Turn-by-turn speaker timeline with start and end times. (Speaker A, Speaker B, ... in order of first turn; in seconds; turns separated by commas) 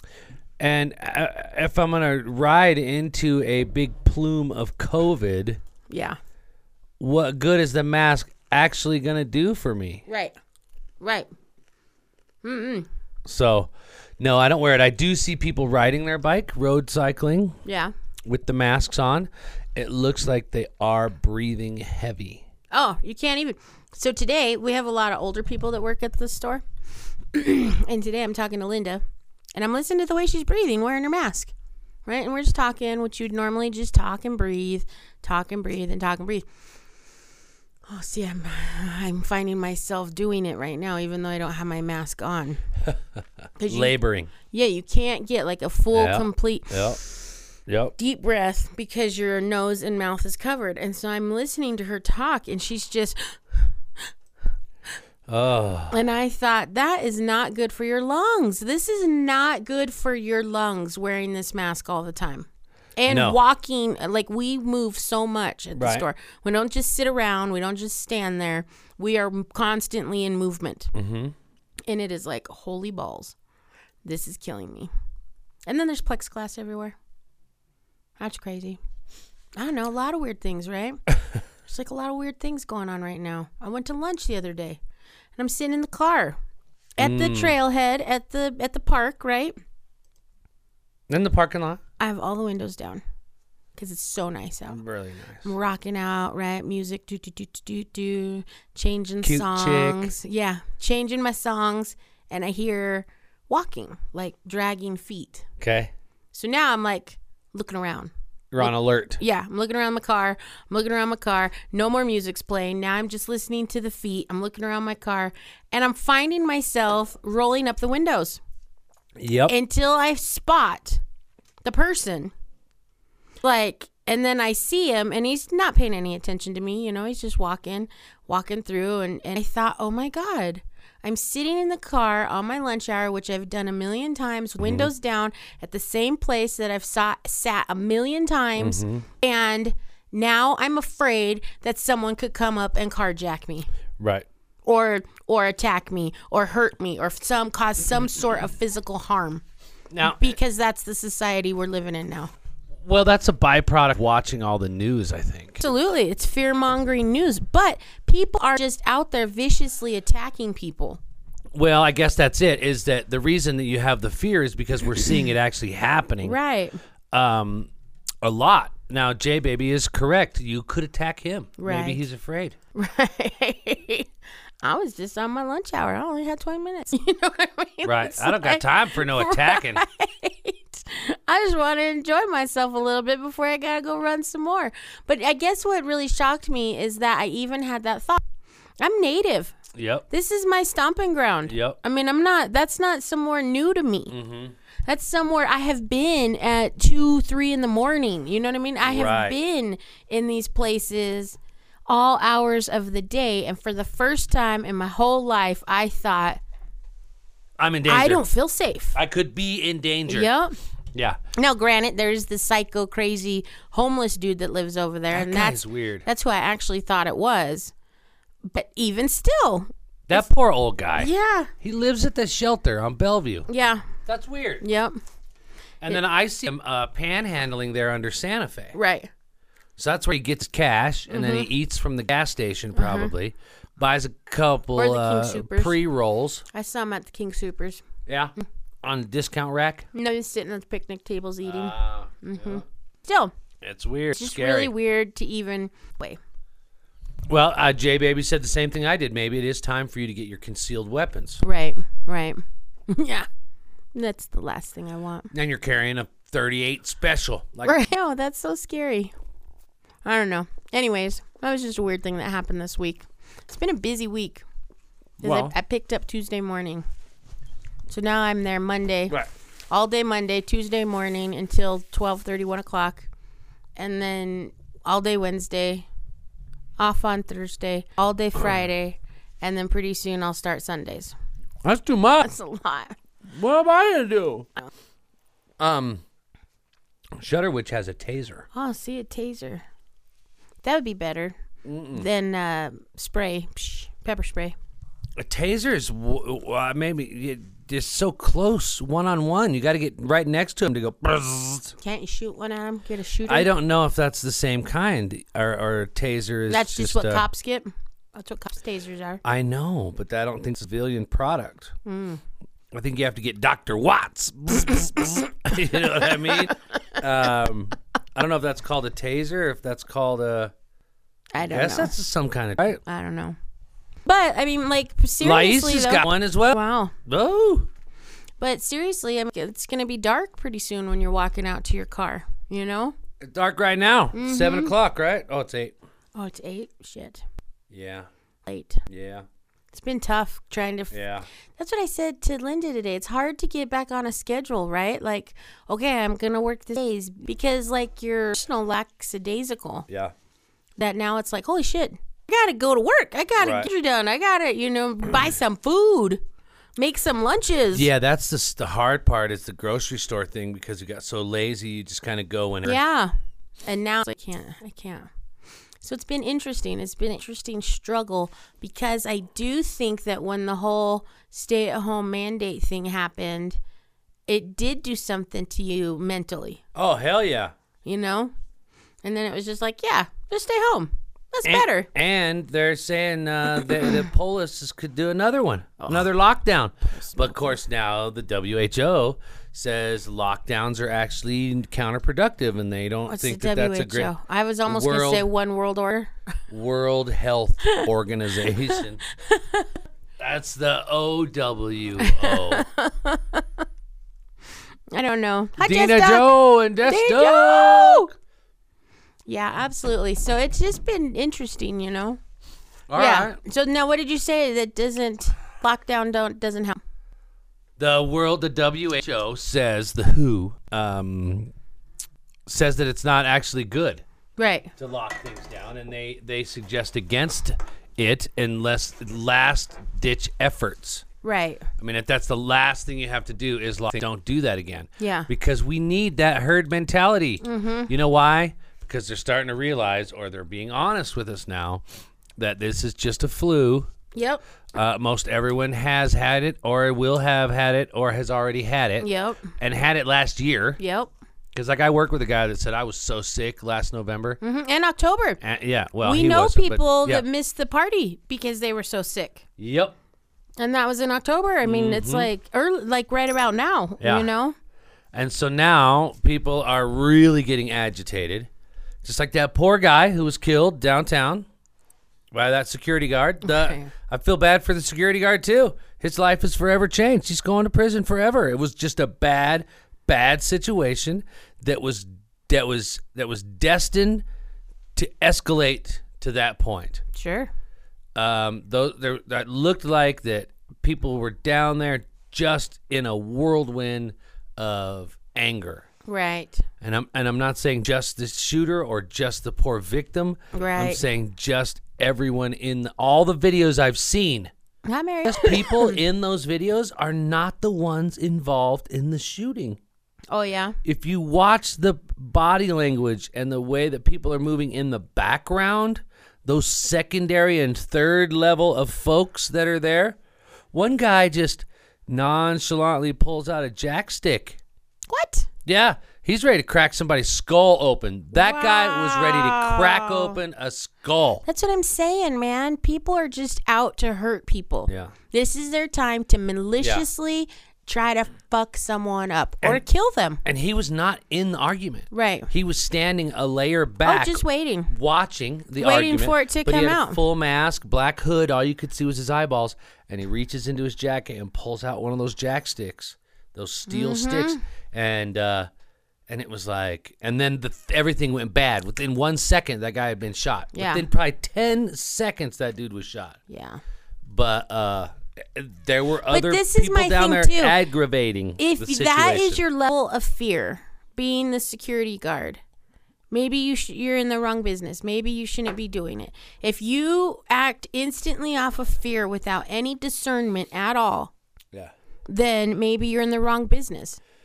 Speaker A: 0.6-5.6, Speaker B: 5.9-6.2, Speaker A: 7.0-10.0, Speaker B: 10.1-10.3, Speaker B: 11.0-11.3, Speaker B: 12.4-12.9, Speaker A: 13.2-17.6, Speaker B: 17.6-17.9, Speaker A: 18.2-22.4, Speaker B: 22.7-26.6, Speaker B: 27.3-29.0, Speaker B: 29.5-31.5, Speaker B: 32.0-36.5, Speaker B: 37.9-42.6, Speaker B: 43.6-47.1, Speaker A: 43.7-44.3, Speaker A: 45.9-47.0, Speaker A: 47.7-47.9, Speaker B: 48.0-54.1, Speaker A: 55.3-56.0, Speaker B: 55.9-70.9, Speaker A: 63.1-63.4, Speaker A: 65.8-66.0, Speaker A: 70.9-71.3, Speaker B: 71.9-73.3, Speaker B: 74.0-74.9, Speaker B: 75.7-77.0, Speaker B: 78.2-78.8, Speaker B: 79.5-81.0, Speaker B: 81.6-84.8, Speaker B: 85.3-86.3, Speaker B: 87.0-89.5, Speaker A: 87.0-87.5, Speaker A: 91.1-91.8, Speaker B: 92.0-93.0, Speaker B: 93.7-94.8, Speaker A: 94.7-95.5, Speaker B: 95.4-105.5, Speaker A: 99.2-100.1, Speaker A: 105.6-105.9, Speaker B: 106.3-118.4, Speaker A: 108.5-109.2, Speaker A: 119.2-119.5, Speaker B: 119.5-121.0, Speaker B: 121.6-122.3, Speaker B: 123.4-143.7, Speaker A: 134.6-134.9, Speaker A: 138.6-139.1, Speaker A: 144.0-144.2, Speaker B: 144.6-149.4, Speaker A: 149.9-150.3, Speaker B: 150.0-152.3, Speaker A: 152.8-155.6, Speaker B: 155.6-161.0, Speaker A: 161.5-166.4, Speaker B: 166.2-166.8, Speaker A: 167.1-167.7, Speaker A: 168.2-172.6, Speaker B: 171.6-172.0, Speaker B: 172.7-174.1, Speaker B: 174.6-188.2, Speaker A: 177.8-179.8, Speaker B: 188.8-189.6, Speaker A: 189.7-190.1, Speaker B: 190.1-194.1, Speaker A: 191.5-191.8, Speaker A: 194.1-194.6, Speaker B: 194.8-201.4, Speaker A: 198.8-199.3, Speaker B: 201.9-206.4, Speaker A: 207.6-208.2, Speaker B: 207.9-209.0, Speaker A: 208.9-210.3, Speaker B: 210.1-210.5, Speaker B: 211.3-217.7, Speaker A: 215.1-216.1, Speaker B: 218.4-220.2, Speaker A: 220.1-223.5, Speaker B: 221.0-221.5, Speaker B: 223.5-223.9, Speaker A: 224.0-224.6, Speaker B: 224.6-225.0, Speaker A: 225.8-228.8, Speaker B: 228.7-229.1, Speaker A: 229.8-236.4, Speaker B: 231.1-231.5, Speaker B: 232.7-233.1, Speaker B: 234.8-235.8, Speaker B: 236.5-237.8, Speaker A: 238.1-239.9, Speaker B: 239.9-243.3, Speaker A: 241.4-242.6, Speaker A: 243.6-244.7, Speaker B: 244.1-246.2, Speaker A: 247.3-251.4, Speaker B: 251.4-253.3, Speaker B: 253.9-255.3, Speaker A: 255.3-257.8, Speaker B: 257.6-259.1, Speaker B: 260.0-264.4, Speaker B: 265.2-266.8, Speaker A: 265.2-265.6, Speaker B: 267.9-269.1, Speaker B: 269.7-273.1, Speaker B: 273.8-275.9, Speaker B: 276.8-281.1, Speaker A: 281.6-282.3, Speaker B: 282.2-282.9, Speaker A: 283.3-284.5, Speaker A: 285.6-286.0, Speaker A: 287.2-288.5, Speaker B: 288.5-289.6, Speaker B: 290.6-291.4, Speaker A: 291.6-292.1, Speaker B: 291.9-294.6, Speaker A: 295.2-301.8, Speaker B: 301.8-303.5, Speaker A: 303.3-307.2, Speaker B: 306.5-309.2, Speaker A: 309.2-311.7, Speaker B: 311.8-312.2, Speaker A: 312.7-320.5, Speaker B: 315.9-316.5, Speaker B: 321.3-321.9, Speaker A: 321.4-322.8, Speaker B: 322.9-323.4, Speaker B: 324.0-326.9, Speaker A: 325.2-327.7, Speaker B: 328.4-332.9, Speaker A: 333.2-335.7, Speaker B: 334.1-334.7, Speaker B: 336.1-337.2, Speaker A: 337.7-338.1, Speaker B: 338.4-338.8, Speaker A: 338.9-339.2, Speaker B: 339.7-341.0, Speaker A: 340.9-341.3, Speaker B: 341.6-349.9, Speaker A: 349.9-350.1, Speaker B: 350.8-356.2, Speaker A: 353.4-353.7, Speaker B: 356.8-357.9, Speaker A: 357.7-362.8, Speaker B: 362.6-365.1, Speaker B: 365.8-373.6, Speaker B: 374.3-376.6, Speaker A: 376.7-377.5, Speaker B: 377.8-378.3, Speaker B: 379.0-381.9, Speaker A: 381.4-394.1, Speaker B: 383.6-384.0, Speaker B: 386.9-387.5, Speaker B: 393.1-396.1, Speaker A: 394.6-395.3, Speaker A: 396.5-399.0, Speaker B: 398.8-399.7, Speaker A: 400.2-402.6, Speaker B: 402.0-403.6, Speaker B: 404.9-408.1, Speaker A: 405.6-408.1, Speaker B: 409.2-412.2, Speaker A: 412.9-413.4, Speaker B: 412.9-416.8, Speaker A: 417.8-421.5, Speaker A: 422.5-424.0, Speaker B: 424.4-424.7, Speaker A: 424.8-431.0, Speaker B: 431.2-431.7, Speaker A: 431.8-441.8, Speaker B: 435.0-435.3, Speaker B: 437.4-437.9, Speaker A: 442.4-443.9, Speaker B: 444.1-444.4, Speaker A: 444.7-450.8, Speaker B: 449.0-449.5, Speaker B: 450.8-451.1, Speaker A: 451.5-454.4, Speaker B: 454.4-455.4, Speaker A: 455.4-457.2, Speaker B: 456.0-459.4, Speaker A: 459.6-459.9, Speaker B: 460.6-464.6, Speaker A: 461.6-462.3, Speaker A: 464.0-464.3, Speaker A: 465.1-468.5, Speaker A: 469.0-471.5, Speaker A: 472.3-484.2, Speaker B: 473.4-473.9, Speaker A: 484.9-487.0, Speaker B: 487.1-487.5, Speaker A: 488.1-495.9, Speaker B: 496.0-496.6, Speaker A: 496.8-504.5, Speaker B: 500.5-501.0, Speaker B: 504.8-506.0, Speaker A: 505.2-509.8, Speaker B: 510.3-510.8, Speaker A: 510.8-520.2, Speaker A: 520.7-524.6, Speaker B: 525.1-525.5, Speaker A: 525.6-531.4, Speaker B: 528.3-530.4, Speaker B: 531.5-540.4, Speaker A: 534.9-535.1, Speaker A: 536.8-537.0, Speaker A: 540.4-555.7, Speaker B: 542.1-542.5, Speaker B: 544.0-544.9, Speaker B: 545.8-547.2, Speaker B: 553.9-554.6, Speaker A: 556.3-563.4, Speaker B: 560.7-561.0, Speaker B: 563.5-563.8, Speaker A: 564.2-569.6, Speaker B: 566.3-567.8, Speaker B: 568.6-572.6, Speaker B: 573.3-581.3, Speaker B: 582.3-584.2